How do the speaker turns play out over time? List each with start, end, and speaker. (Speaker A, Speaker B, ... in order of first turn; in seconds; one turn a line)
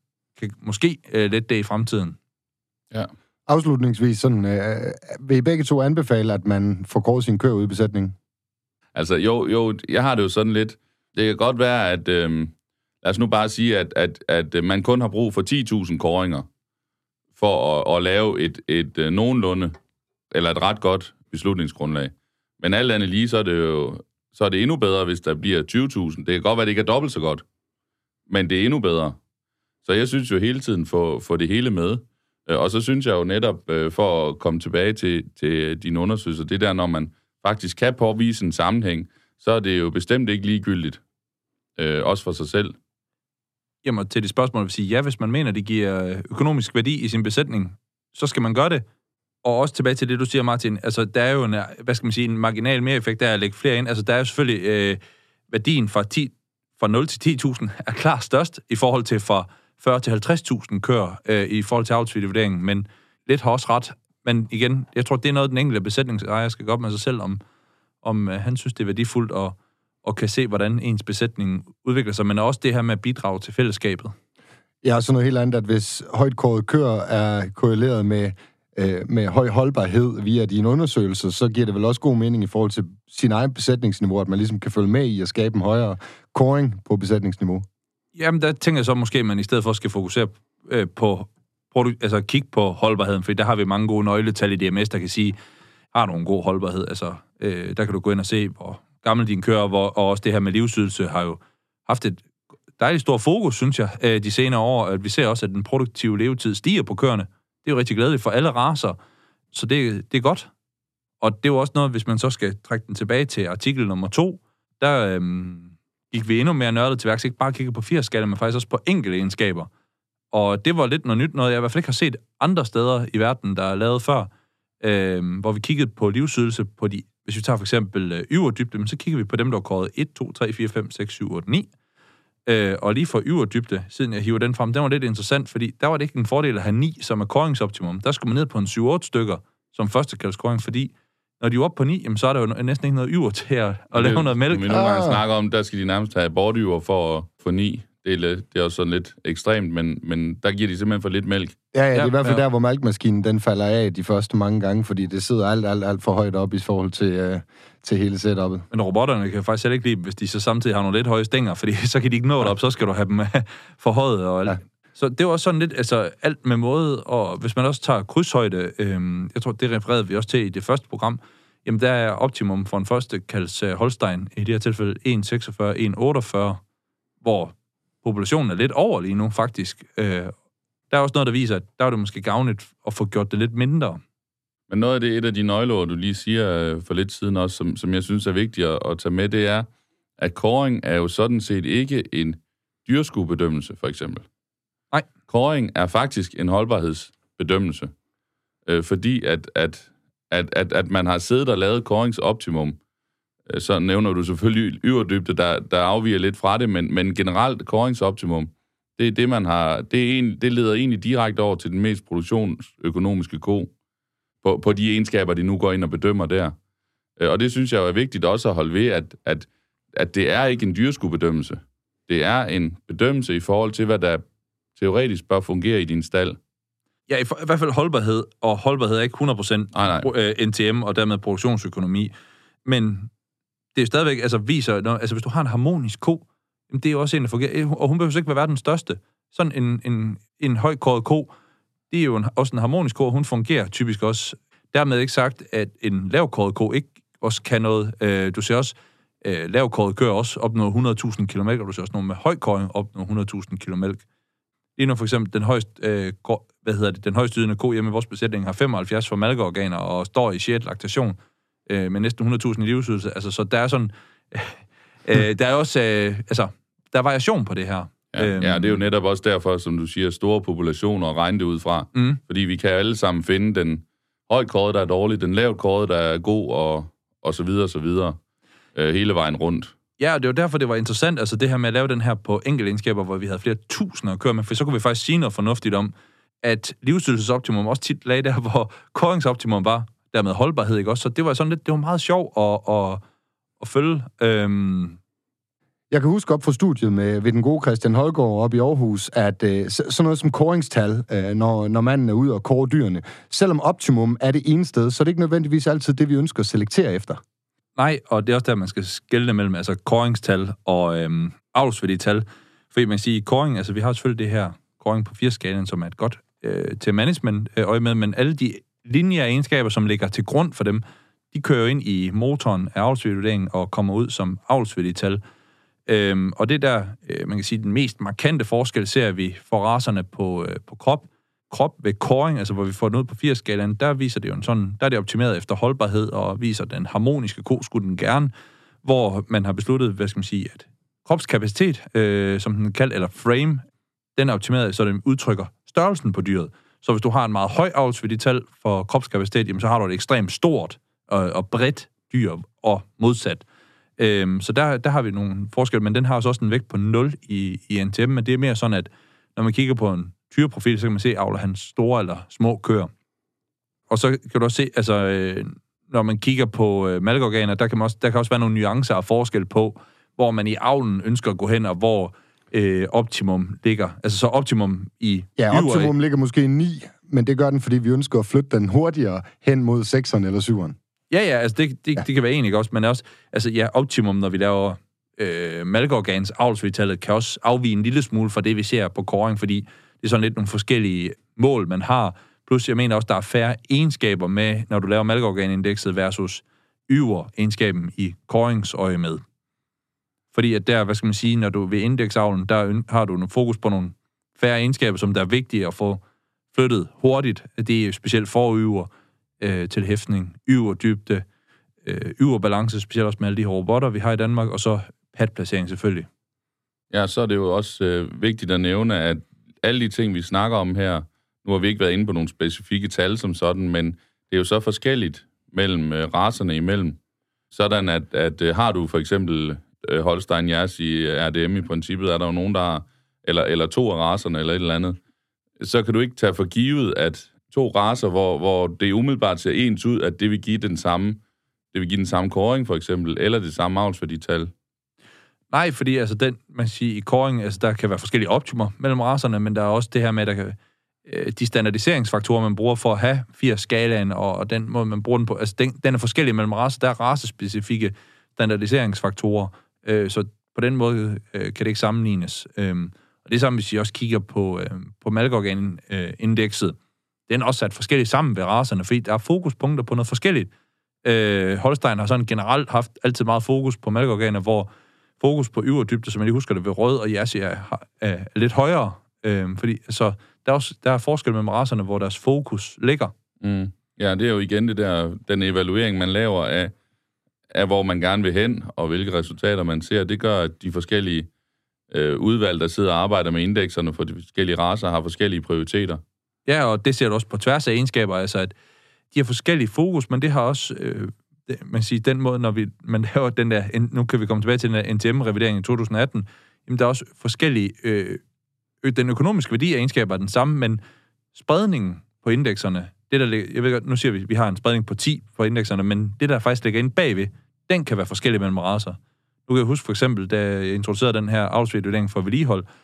Speaker A: 0.4-2.2
Speaker B: 3.5-8.2
Speaker C: 8.9-16.5
Speaker C: 17.4-19.7
Speaker C: 20.3-27.4
Speaker C: 28.3-29.2
Speaker C: 29.9-41.0
Speaker C: 41.8-42.8
Speaker A: 43.8-48.8
Speaker A: 49.4-55.0
Speaker A: 55.5-67.4
Speaker A: 68.0-74.1
Speaker B: 74.8-87.7
Speaker A: 88.2-95.4
Speaker A: 95.9-102.2
Speaker A: 102.8-109.0
Speaker A: 109.5-110.5
Speaker A: 111.2-119.7
Speaker A: 120.3-124.3
Speaker A: 124.8-131.7
Speaker A: 132.5-144.8
Speaker C: 143.9-151.6
Speaker B: 144.7-145.2
Speaker B: 151.7-158.7
Speaker A: 151.9-152.4
Speaker A: 158.7-176.6
Speaker A: 177.2-180.3
Speaker A: 180.9-184.0
Speaker C: 184.7-194.2
Speaker C: 195.3-197.9
Speaker C: 198.7-202.8
Speaker C: 203.5-213.7
Speaker C: 214.4-216.6
Speaker C: 217.2-224.2
Speaker C: 224.8-226.4
Speaker A: 227.1-232.1
Speaker C: 229.7-230.1
Speaker A: 232.7-233.1
Speaker A: 233.8-241.3
Speaker A: 241.9-254.0
Speaker A: 254.8-261.2
Speaker A: 261.7-268.8
Speaker C: 268.1-278.2
Speaker C: 278.8-279.7
Speaker A: 280.0-293.0
Speaker A: 293.6-295.0
Speaker B: 295.9-307.2
Speaker A: 307.8-325.2
Speaker A: 325.9-338.3
Speaker A: 338.8-343.6
Speaker A: 344.2-353.4
Speaker A: 354.0-362.9
Speaker A: 363.9-375.9
Speaker B: 375.4-380.8
Speaker A: 381.1-399.2
Speaker A: 400.3-406.0
Speaker A: 406.5-408.9
Speaker A: 409.4-411.2
Speaker A: 411.8-416.1
Speaker C: 416.9-427.0
Speaker C: 427.5-435.0
Speaker C: 435.6-441.2
Speaker C: 441.7-444.5
Speaker A: 445.5-466.8
Speaker A: 467.3-470.5
Speaker A: 471.0-483.1
Speaker C: 483.4-486.8
Speaker C: 487.5-491.3
Speaker C: 491.9-496.0
Speaker A: 496.5-498.5
Speaker A: 499.1-508.2
Speaker A: 508.8-510.8
Speaker A: 511.3-522.7